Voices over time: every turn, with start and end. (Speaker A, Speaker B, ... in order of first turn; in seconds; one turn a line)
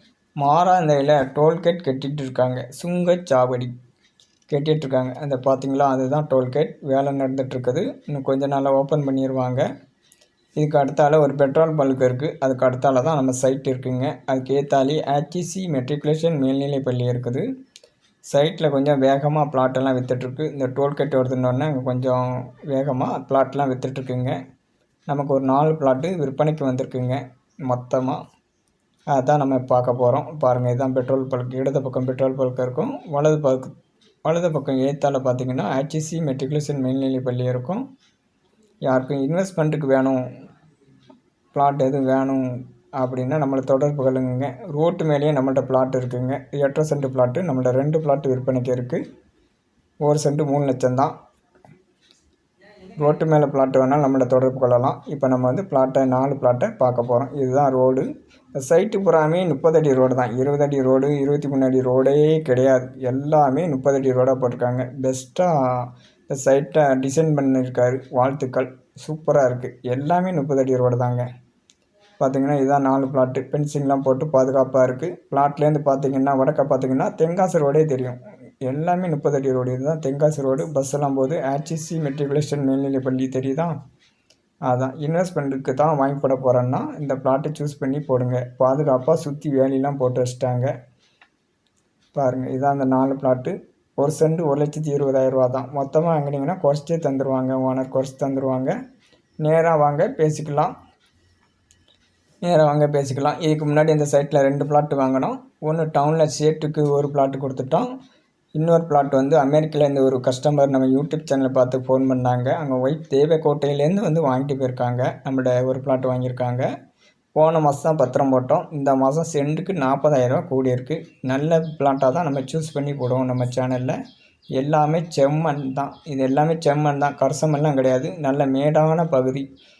Speaker A: 0.4-3.7
Speaker A: 4.5-9.7
Speaker A: 10.6-17.4
Speaker A: 18.3-24.4
Speaker A: 25.1-28.2
Speaker A: 29.1-33.7
Speaker A: 34.2-37.8
Speaker A: 38.8-40.3
Speaker A: 41.5-49.0
Speaker A: 50.0-51.1
Speaker A: 52.9-71.2
Speaker A: 72.2-83.8
Speaker A: 84.7-90.7
Speaker A: 92.1-98.7
Speaker A: 99.4-100.7
Speaker A: 102.4-107.9
Speaker A: 108.5-116.7
Speaker A: 117.3-124.0
Speaker A: 124.5-129.5